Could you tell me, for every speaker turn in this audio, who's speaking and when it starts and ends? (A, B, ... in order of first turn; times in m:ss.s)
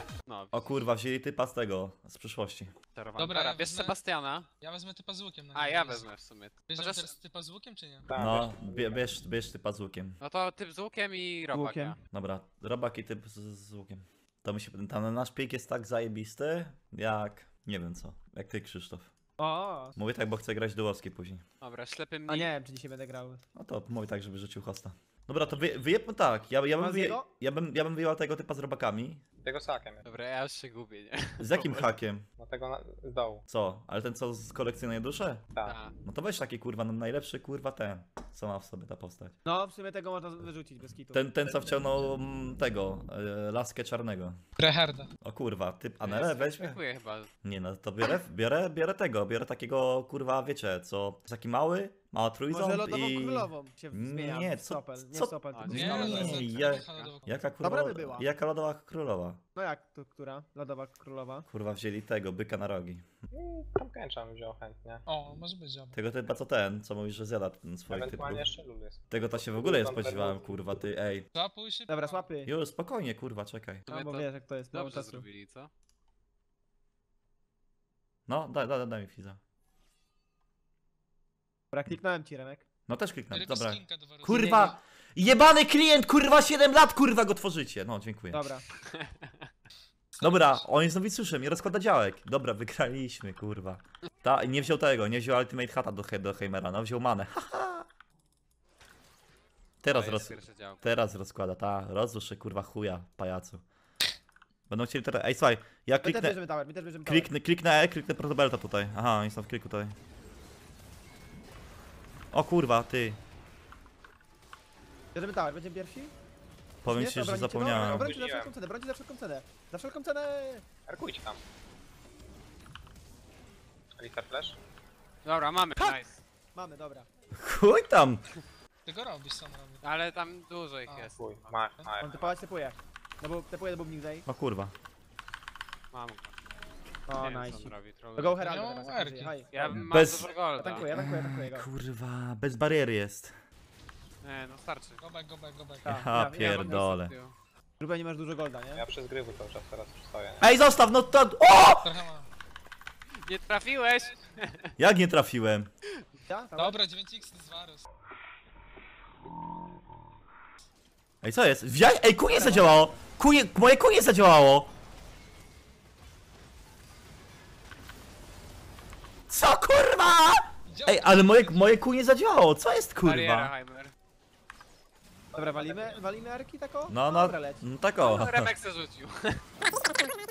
0:00.2-0:00.6 A
0:00.5-0:02.7 B
0:03.0-0:04.5 A
0:03.2-0:04.0 C
0:04.6-0:06.1 C
0:05.5-0:07.1 A
0:06.7-0:08.1 C
0:08.1-0:08.6 D
0:08.2-0:10.2 B
0:10.2-0:12.0 A
0:11.5-0:11.9 E
0:12.1-0:19.1 B
0:19.4-0:20.0 E
0:20.0-0:21.4 B
0:21.6-0:22.5 A
0:22.3-0:23.4 E
0:23.5-0:29.2 B
0:26.8-0:27.3 E
0:29.4-0:30.0 D
0:30.0-0:31.9 A
0:31.4-0:32.2 B
0:32.4-0:33.4 D
0:33.5-0:35.4 B
0:35.6-0:35.9 A
0:36.0-0:39.4 B
0:39.5-0:41.2 E
0:41.1-0:44.4 B
0:44.6-0:45.1 C
0:45.2-0:46.8 B
0:46.0-0:47.3 A
0:47.4-0:59.4 B
0:52.5-0:56.5 E
0:55.5-0:57.1 A
0:55.7-0:57.4 C
0:57.6-0:58.3 E
0:59.5-1:01.5 E
1:01.5-1:03.0 B
1:03.3-1:05.0 D
1:05.1-1:06.0 C
1:05.9-1:08.5 B
1:07.9-1:10.5 D
1:09.1-1:11.3 B
1:11.3-1:12.2 C
1:11.9-1:12.5 E
1:12.5-1:13.8 B
1:13.9-1:15.7 A
1:13.9-1:15.2 E
1:18.3-1:19.4 B
1:21.7-1:22.6 E
1:22.9-1:28.4 B
1:23.3-1:24.6 C
1:24.3-1:24.8 E
1:28.3-1:28.6 E
1:30.2-1:30.6 C
1:30.2-1:37.9 B
1:39.8-1:43.6 B
1:39.9-1:40.8 A
1:44.7-1:46.4 B
1:46.0-1:47.3 E
1:47.0-1:50.0 B
1:52.3-1:53.2 B
1:55.1-1:56.1 E
1:56.8-1:58.1 B
1:56.9-2:00.6 E
1:57.8-1:58.5 D
2:00.9-2:01.4 D
2:04.0-2:04.6 D
2:05.2-2:06.2 A
2:06.5-2:07.1 E
2:07.3-2:08.2 B
2:08.9-2:09.8 C
2:09.8-2:11.5 A
2:11.1-2:12.3 D
2:12.0-2:14.2 E
2:14.3-2:14.7 B
2:15.9-2:16.3 A
2:17.1-2:19.8 E
2:17.2-2:18.4 A
2:18.4-2:19.3 C
2:19.5-2:20.9 A
2:19.7-2:20.3 B
2:20.6-2:21.7 E
2:20.9-2:23.4 B
2:24.2-2:25.0 A
2:25.0-2:25.9 C
2:25.8-2:26.9 E
2:25.8-2:27.1 B
2:26.4-2:27.4 A
2:27.8-2:28.8 E
2:28.8-2:30.5 D
2:30.4-2:32.0 B
2:31.8-2:32.3 C
2:33.2-2:34.7 A
2:34.8-2:35.7 B
2:36.3-2:36.8 E
2:36.6-2:37.8 C
2:41.2-2:44.7 B
2:42.3-2:42.8 E
2:49.3-2:53.5 B
2:50.7-2:51.8 C
2:53.0-2:53.9 A
2:55.3-2:57.6 E
2:56.9-2:58.5 B
2:58.0-2:59.5 A